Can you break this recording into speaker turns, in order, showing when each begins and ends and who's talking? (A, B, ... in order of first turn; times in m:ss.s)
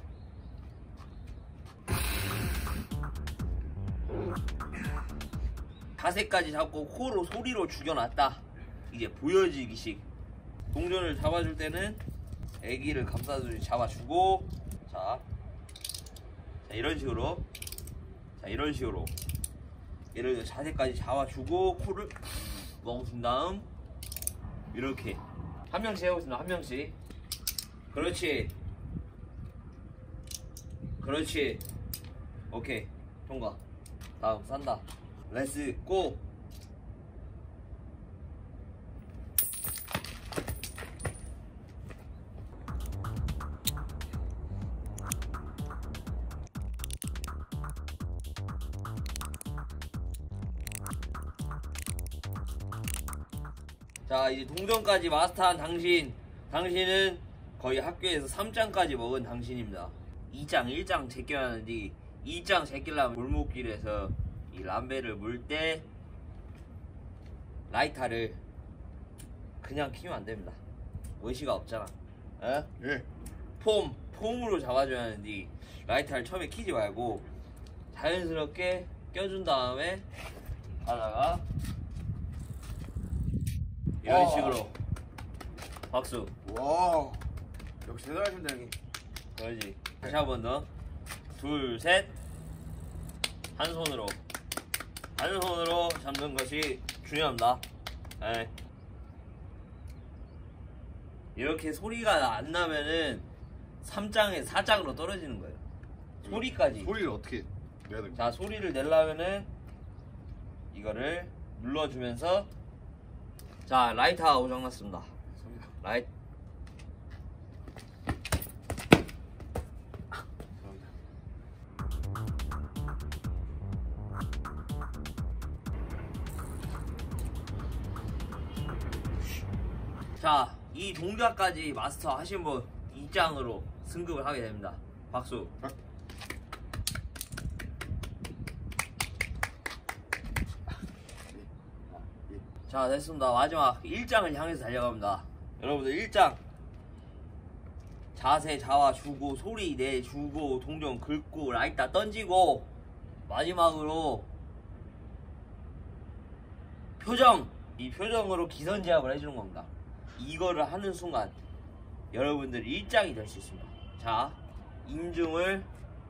0:06.0-0:10.0 A
0:10.7-0:12.0 A
0:12.6-0:15.2 A
0:16.7-0:17.4 A
0:18.4-0:19.1 A
0:20.1-0:22.2 A
0:22.7-0:23.7 A
0:24.7-0:27.0 A
0:27.9-0:28.5 A
0:31.0-0:31.6 A
0:32.5-0:33.6 A
0:34.2-0:36.2 A
0:54.1-1:05.9 A
1:07.7-1:08.4 A
1:09.6-1:10.6 A
1:11.2-1:12.7 A
1:12.8-1:13.0 B
1:13.6-1:17.2 A
1:17.9-1:20.0 A
1:20.8-1:21.4 A
1:24.0-1:24.8 A
1:24.1-1:24.6 B
1:25.9-1:26.3 A
1:26.5-1:27.2 B
1:27.8-1:28.8 B
1:29.4-1:30.7 A
1:31.4-1:32.1 A
1:33.6-1:34.2 A
1:35.2-1:37.6 A
1:38.2-1:38.5 A
1:41.4-1:43.3 A
1:43.8-1:45.6 A
1:46.2-1:47.0 A
1:46.3-1:48.2 B
1:48.1-1:49.5 A
1:50.7-1:52.5 A
1:53.7-1:55.1 A
1:55.4-1:55.7 B
1:55.8-1:56.1 A
2:10.2-2:15.6 A
2:22.1-2:22.4 B
2:22.7-2:26.4 A
2:28.2-2:32.7 A
2:33.3-2:34.3 A
2:37.0-2:41.4 A
2:42.1-2:45.7 A